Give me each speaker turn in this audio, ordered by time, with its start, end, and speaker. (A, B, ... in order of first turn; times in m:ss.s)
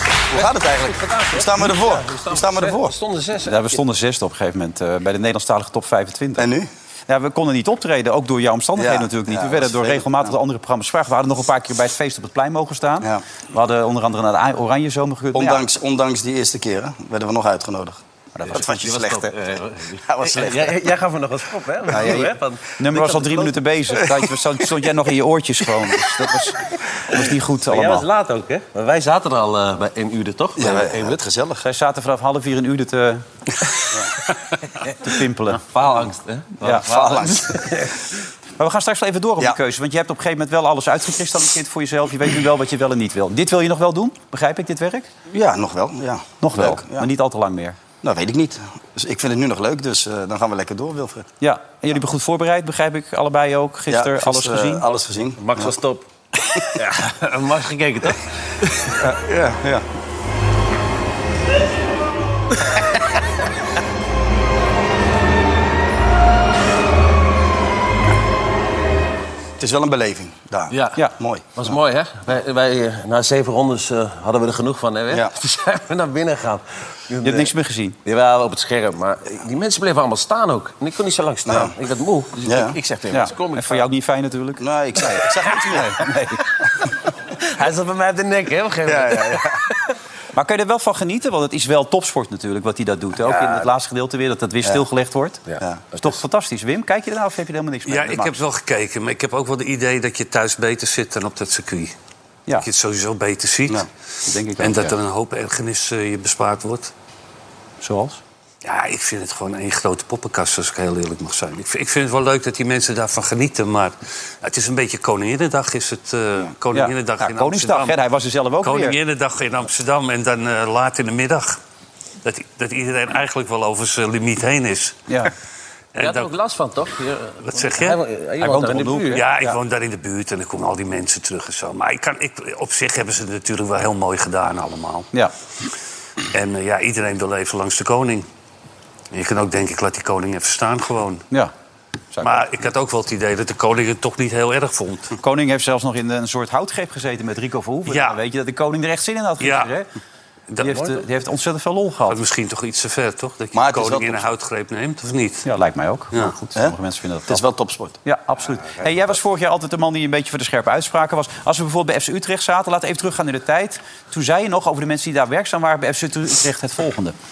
0:00.3-0:03.0 A
0:00.3-0:03.8 B
0:03.4-0:06.5 C
0:06.4-0:06.7 A
0:07.1-0:15.6 C
0:08.8-0:10.3 A
0:15.3-0:18.0 A
0:18.4-0:18.7 C
0:18.5-0:23.6 B
0:18.5-0:19.3 A
0:20.1-0:20.6 A
0:21.9-0:22.2 A
0:21.9-0:28.1 C
0:27.7-0:31.2 B
0:30.6-0:31.6 A
0:31.6-0:33.2 C
0:35.0-0:35.6 C
0:35.7-0:38.1 B
0:36.6-0:36.9 C
0:36.8-0:37.6 A
0:38.6-0:45.1 C
0:45.3-0:47.1 A
0:46.4-0:47.8 C
0:48.0-0:51.3 A
0:51.4-0:54.8 C
0:53.9-0:55.7 A
0:55.4-0:56.0 B
0:56.6-0:58.9 B
0:59.0-0:59.8 A
1:09.6-1:11.5 A
1:10.7-1:17.5 B
1:17.2-1:18.0 C
1:18.0-1:23.8 B
1:21.5-1:21.7 A
1:22.4-1:22.8 A
1:23.1-1:26.4 C
1:24.6-1:26.0 A
1:27.4-1:29.5 B
1:28.9-1:29.6 A
1:30.3-1:35.4 C
1:33.3-1:33.6 B
1:35.5-1:36.2 B
1:36.0-1:38.4 C
1:37.9-1:42.0 D
1:42.6-1:43.9 D
1:44.3-1:45.0 C
1:44.6-1:46.9 D
1:47.8-1:48.2 C
1:48.6-1:58.0 D
1:56.7-1:59.0 C
1:58.6-2:01.6 D
2:02.2-2:05.0 D
2:06.0-2:06.3 D
2:06.0-2:09.2 B
2:07.4-2:08.0 D
2:08.4-2:09.6 C
2:09.1-2:15.1 D
2:16.3-2:18.3 D
2:19.1-2:21.3 D
2:22.1-2:22.4 C
2:22.2-2:25.2 D
2:25.2-2:29.9 C
2:27.9-2:28.2 D
2:29.4-2:29.7 D
2:30.5-2:31.0 D
2:30.6-2:32.2 C
2:32.1-2:35.5 D
2:33.5-2:34.2 A
2:35.4-2:37.4 C
2:37.3-2:38.0 A
2:38.0-2:47.2 C